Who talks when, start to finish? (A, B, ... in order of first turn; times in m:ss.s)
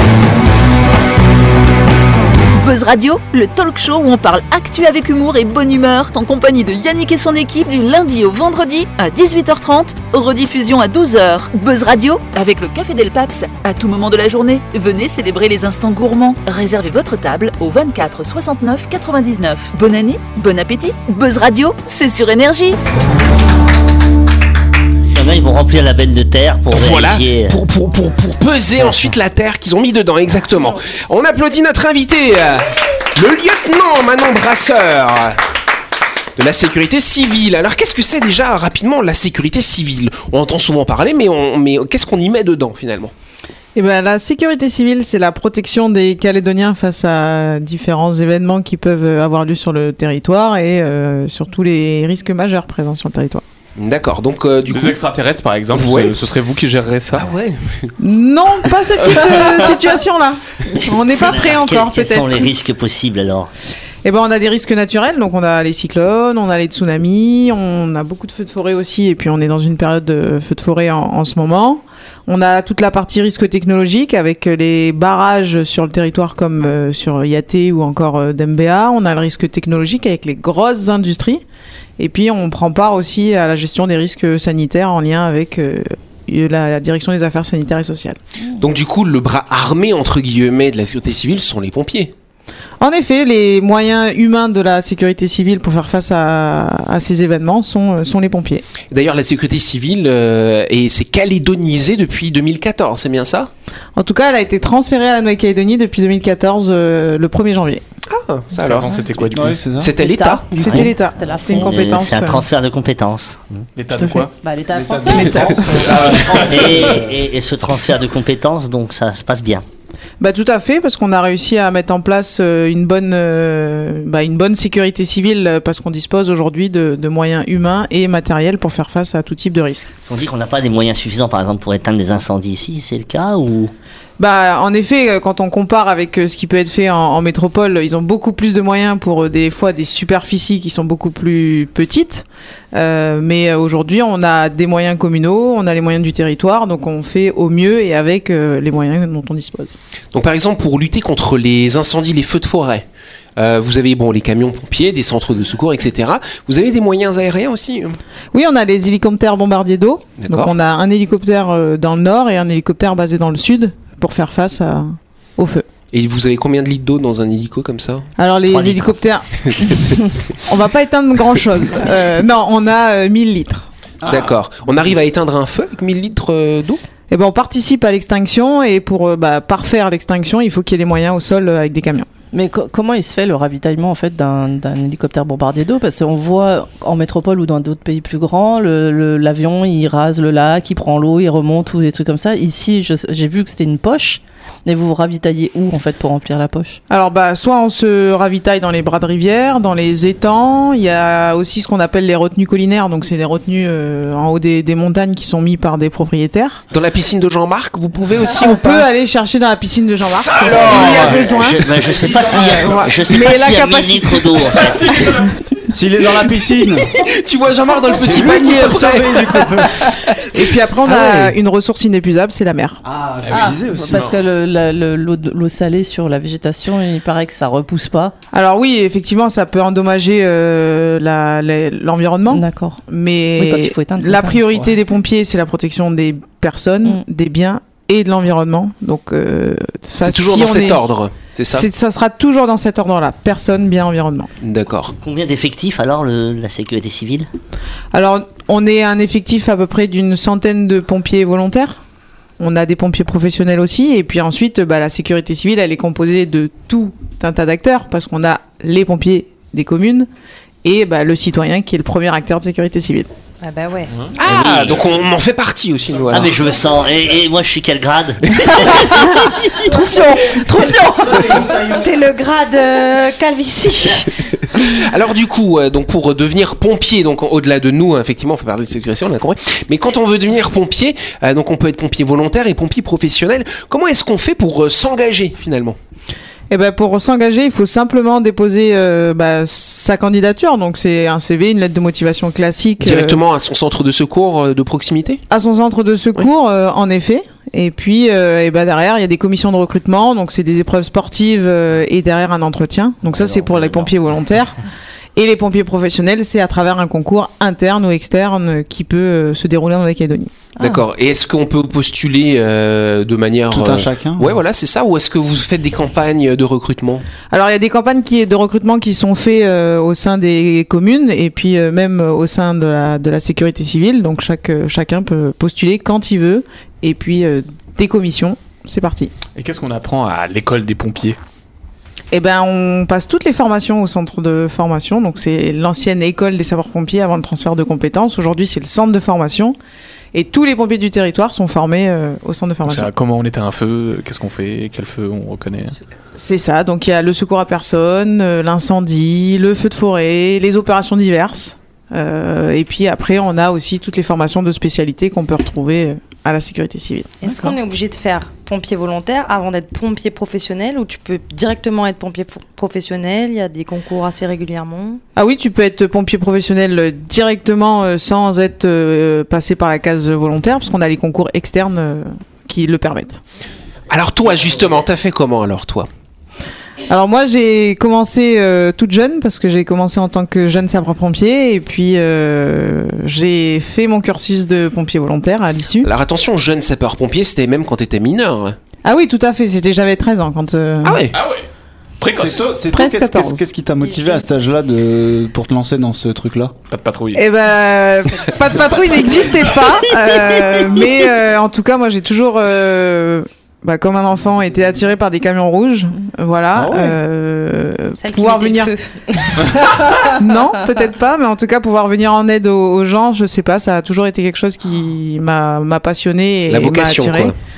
0:02.6-0:22.8 A
0:25.1-0:27.6 B
0:26.7-0:35.4 C
0:36.4-0:43.1 C
0:43.7-0:53.4 D
0:53.8-0:55.0 C
0:54.7-0:57.4 E
0:55.7-0:56.1 C
0:57.1-0:57.9 C
0:58.0-1:02.5 D
0:59.1-0:59.7 E
1:01.0-1:03.5 B
1:04.0-1:21.4 D
1:22.0-1:28.2 D
1:28.6-1:32.1 C
1:32.8-1:38.6 D
1:38.9-1:43.5 C
1:44.0-1:47.8 D
1:48.1-1:48.9 C
1:48.5-1:49.7 E
1:49.3-1:50.0 F
1:49.8-1:50.8 C
1:50.0-1:51.8 G
1:50.5-1:52.4 D
1:51.5-1:53.6 B
1:53.7-1:57.0 E
1:53.9-1:54.2 D
1:54.4-1:55.7 G
1:55.1-1:56.2 D
1:56.3-1:59.6 B
2:00.2-2:09.9 D
2:10.1-2:13.7 B
2:14.2-2:29.8 D
2:30.1-2:32.8 C
2:33.4-2:38.0 C
2:38.3-2:45.6 D
2:40.2-2:40.5 C
2:45.9-2:48.1 C
2:48.2-2:49.8 D
2:48.4-2:49.0 B
2:49.4-2:50.1 C
2:50.4-2:53.7 D
2:54.0-2:54.3 F
2:54.1-2:56.8 C
2:57.1-3:02.1 D
3:02.3-3:16.8 G
3:16.9-3:26.6 D
3:26.7-3:28.8 C
3:28.4-3:31.8 D
3:30.0-3:31.1 C
3:30.4-3:31.3 E
3:30.9-3:34.9 B
3:31.9-3:32.9 F
3:32.3-3:34.5 D
3:34.5-3:35.3 E
3:35.0-3:35.2 D
3:35.7-3:36.9 F
3:36.9-3:41.0 C
3:37.9-3:39.8 F
3:40.3-3:42.8 D
3:40.8-3:41.4 F
3:42.8-3:44.1 F
3:43.2-3:44.2 E
3:43.3-3:48.1 G
3:48.3-4:00.8 D
3:52.3-3:52.8 G
3:53.4-3:54.4 G
4:00.0-4:01.7 C
4:01.5-4:04.3 D
4:04.4-4:04.9 C
4:05.0-4:07.3 B
4:07.9-4:11.8 D
4:12.4-4:20.1 D
4:20.6-4:23.1 D
4:23.4-4:23.9 H
4:24.2-4:26.3 C
4:24.2-4:24.9 B
4:26.1-4:29.1 B
4:29.7-4:34.1 H
4:29.7-4:30.6 D
4:31.1-4:31.7 F
4:34.9-4:45.8 C
4:46.5-4:53.2 D
4:52.8-4:55.2 C
4:55.3-5:04.6 D
5:03.1-5:04.0 B
5:05.2-5:10.4 D
5:10.6-5:10.8 G
5:10.6-5:17.1 C
5:13.5-5:14.4 F
5:17.3-5:29.1 D
5:29.3-5:31.2 E
5:32.1-5:39.5 D
5:40.1-5:42.9 D
5:42.6-5:45.8 E
5:46.2-5:57.3 D
5:57.2-6:05.0 H
6:05.2-6:13.2 D
6:13.9-6:15.9 C
6:16.9-6:25.9 D
6:25.8-6:28.6 C
6:28.8-6:31.0 D
6:30.8-6:31.1 C
6:31.1-6:31.5 E
6:32.0-6:32.6 E
6:32.1-6:36.5 F
6:32.7-6:33.4 D
6:36.7-6:37.3 E
6:37.1-6:48.7 D
6:40.1-6:41.0 F
6:46.5-6:47.0 F
6:48.0-6:48.9 H
6:49.8-6:57.3 D
6:56.5-6:57.3 C